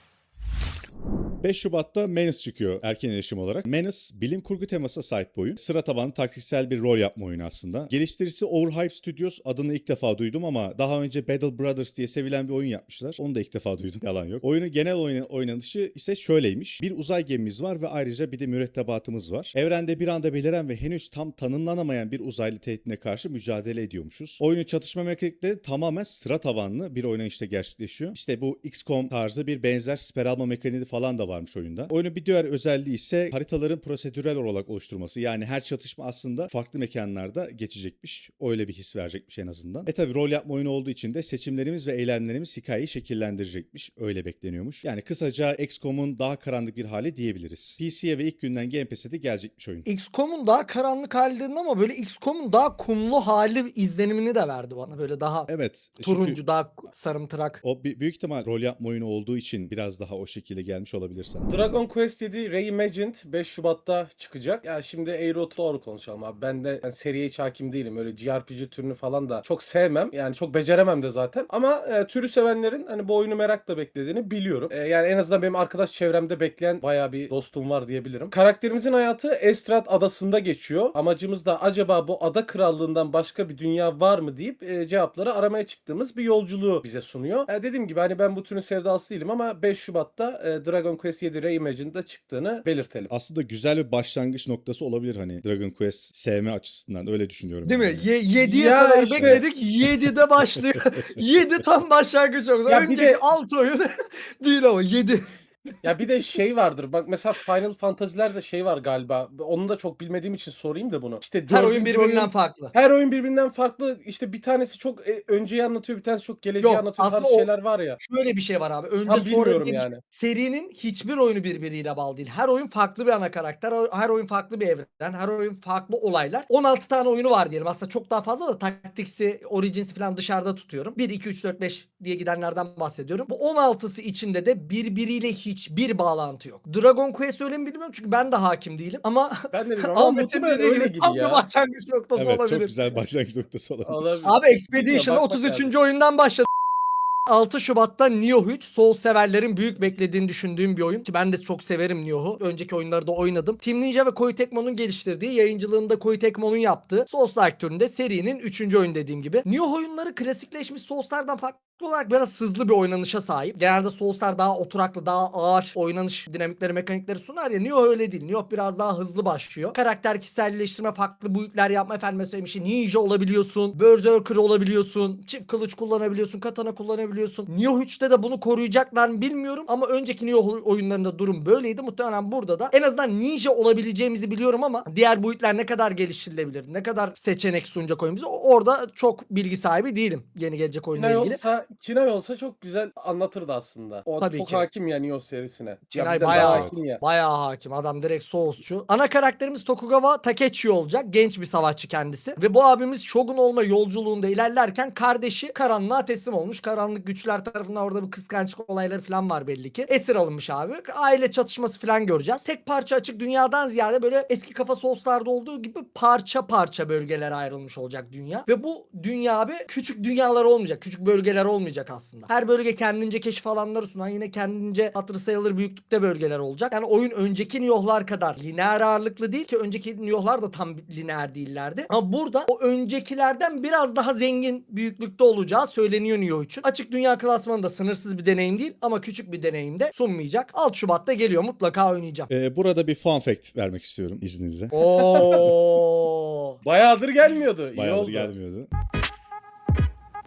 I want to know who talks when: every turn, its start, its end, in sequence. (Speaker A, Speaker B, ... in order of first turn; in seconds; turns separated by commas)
Speaker A: 1.4-49.9, Speaker B: 49.9-55.5, Speaker A: 55.5-56.4, Speaker B: 56.0-57.6, Speaker A: 57.6-61.6, Speaker C: 61.5-93.1, Speaker A: 93.1-98.1, Speaker B: 97.7-105.7, Speaker C: 98.4-99.5, Speaker A: 99.2-99.9, Speaker C: 102.7-103.3, Speaker C: 105.8-118.0, Speaker B: 111.5-112.7, Speaker B: 116.6-117.5, Speaker B: 118.0-143.0, Speaker C: 119.1-120.0, Speaker C: 139.5-141.4, Speaker A: 142.2-144.2, Speaker C: 143.9-145.7, Speaker B: 144.2-146.5, Speaker B: 147.3-191.4, Speaker C: 191.0-197.0, Speaker B: 194.2-194.7, Speaker B: 195.9-242.3, Speaker A: 196.3-196.8, Speaker A: 242.3-245.5, Speaker B: 244.7-246.6, Speaker C: 245.1-245.4, Speaker C: 246.6-248.3, Speaker A: 247.8-248.7